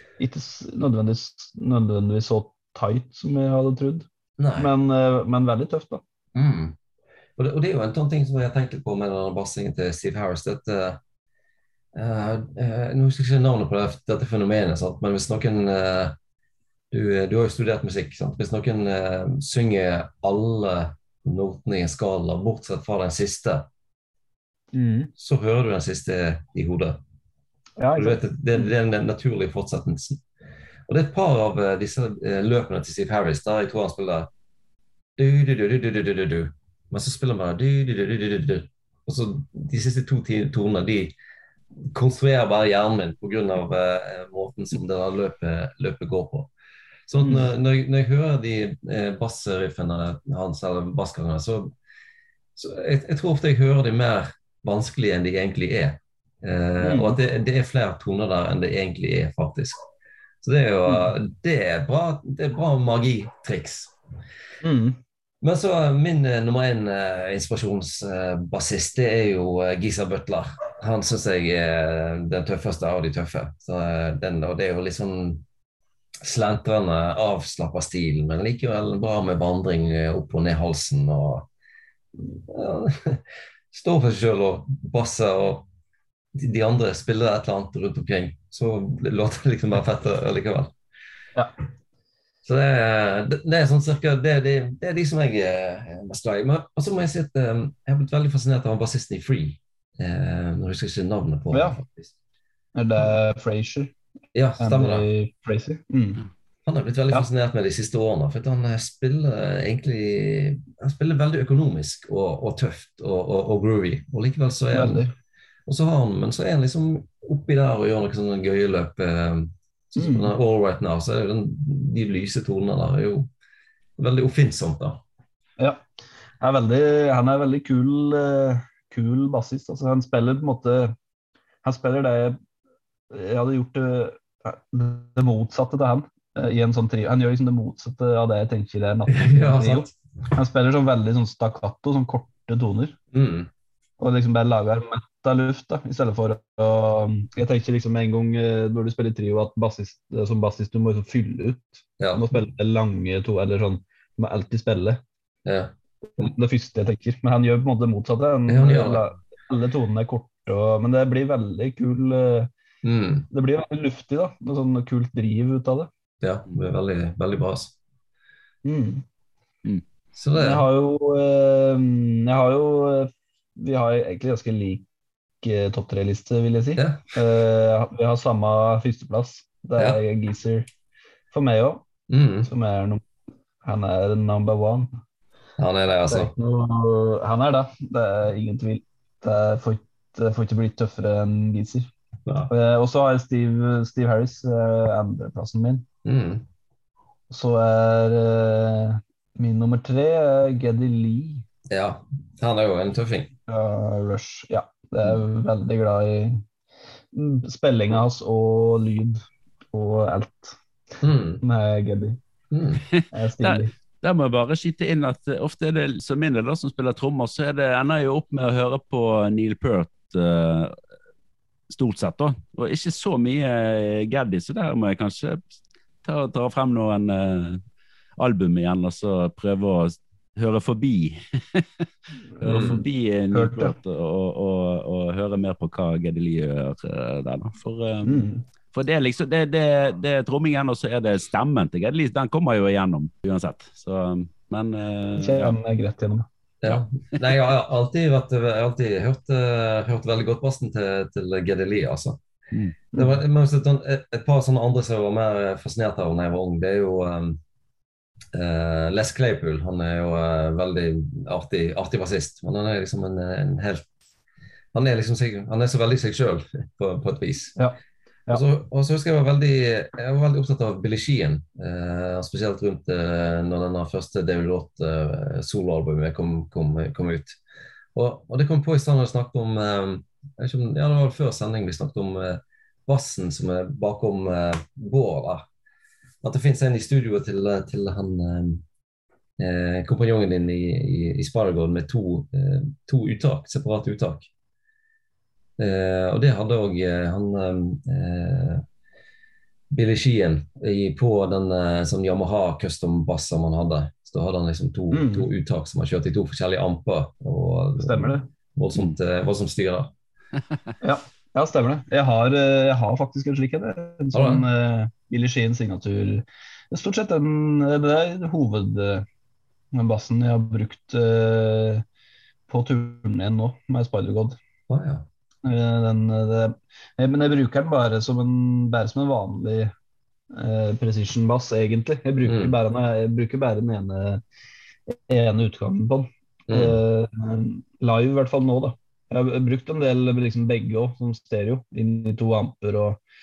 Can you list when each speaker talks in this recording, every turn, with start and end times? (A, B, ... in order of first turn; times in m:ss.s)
0:00.2-0:04.0 A
0:04.4-0:04.7 B
0:04.6-0:06.0 A
0:06.3-0:06.8 B
0:07.4-0:11.0 B
0:11.9-0:16.2 B
0:16.9-0:23.7 B
0:24.7-0:25.1 A
0:25.2-0:27.0 B
0:27.8-0:28.2 A
0:27.9-0:30.2 B
0:30.9-0:34.3 B
0:35.2-0:41.1 B
0:41.8-0:46.5 B
0:47.1-0:51.7 B
0:52.6-0:59.8 B
0:56.8-0:57.2 A
1:00.4-1:03.9 B
1:04.6-1:05.0 A
1:05.4-1:15.4 B
1:16.2-1:21.5 B
1:22.5-1:25.6 B
1:26.3-1:30.7 B
1:32.4-1:42.1 B
1:41.5-1:41.8 A
1:42.8-1:43.9 A
1:44.3-1:45.0 B
1:44.6-1:46.2 A
1:46.6-1:55.0 B
1:54.7-1:55.1 A
1:55.6-2:03.3 B
2:00.0-2:00.3 A
2:04.0-2:05.0 B
2:06.4-2:10.9 A
2:11.6-2:12.4 A
2:13.1-2:23.0 A
2:19.1-2:19.9 B
2:23.1-2:23.5 B
2:24.0-2:35.0 A
2:32.0-2:32.2 B
2:35.4-2:35.7 B
2:36.2-2:42.5 A
2:38.5-2:39.1 B
2:42.8-2:43.3 B
2:43.3-2:45.9 A
2:46.2-2:47.7 B
2:48.6-2:49.0 A
2:50.1-2:50.7 B
2:50.4-2:54.8 A
2:55.4-3:00.7 A
2:56.8-2:57.0 B
3:01.3-3:01.8 A
3:02.1-3:02.5 B
3:02.4-3:03.0 A
3:03.6-3:04.9 A
3:05.6-3:06.3 B
3:06.1-3:11.9 A
3:12.2-3:12.5 B
3:12.5-3:15.9 A
3:16.0-3:16.4 B
3:17.3-3:21.4 A
3:21.7-3:23.3 B
3:23.5-3:26.4 A
3:27.1-3:29.2 A
3:29.7-3:30.6 A
3:31.0-3:31.4 B
3:31.4-3:32.2 A
3:32.5-3:32.8 B
3:32.9-3:40.8 C
3:33.1-3:33.7 A
3:41.7-3:45.5 C
3:46.0-3:47.6 C
3:48.2-3:51.9 C
3:52.4-4:05.5 C
3:52.4-3:53.7 A
3:52.4-3:52.8 B
3:58.0-3:58.4 A
4:05.2-4:06.3 A
4:06.6-4:12.2 B
4:12.5-4:12.8 C
4:12.9-4:13.2 A
4:13.0-4:17.4 B
4:18.3-4:23.9 B
4:24.7-4:27.6 B
4:27.6-4:28.4 A
4:28.3-4:37.4 B
4:37.9-4:45.4 B
4:46.2-4:48.6 B
4:49.4-4:54.3 B
4:55.6-4:58.6 B
4:59.7-5:09.9 B
5:04.9-5:05.3 A
5:07.8-5:08.2 A
5:10.8-5:19.0 A
5:14.1-5:14.5 B
5:19.7-5:21.8 A
5:22.5-5:24.4 A
5:24.7-5:25.1 B
5:25.4-5:29.7 A
5:30.3-5:34.2 A
5:32.2-5:32.6 B
5:34.9-5:43.0 A
5:36.5-5:36.8 B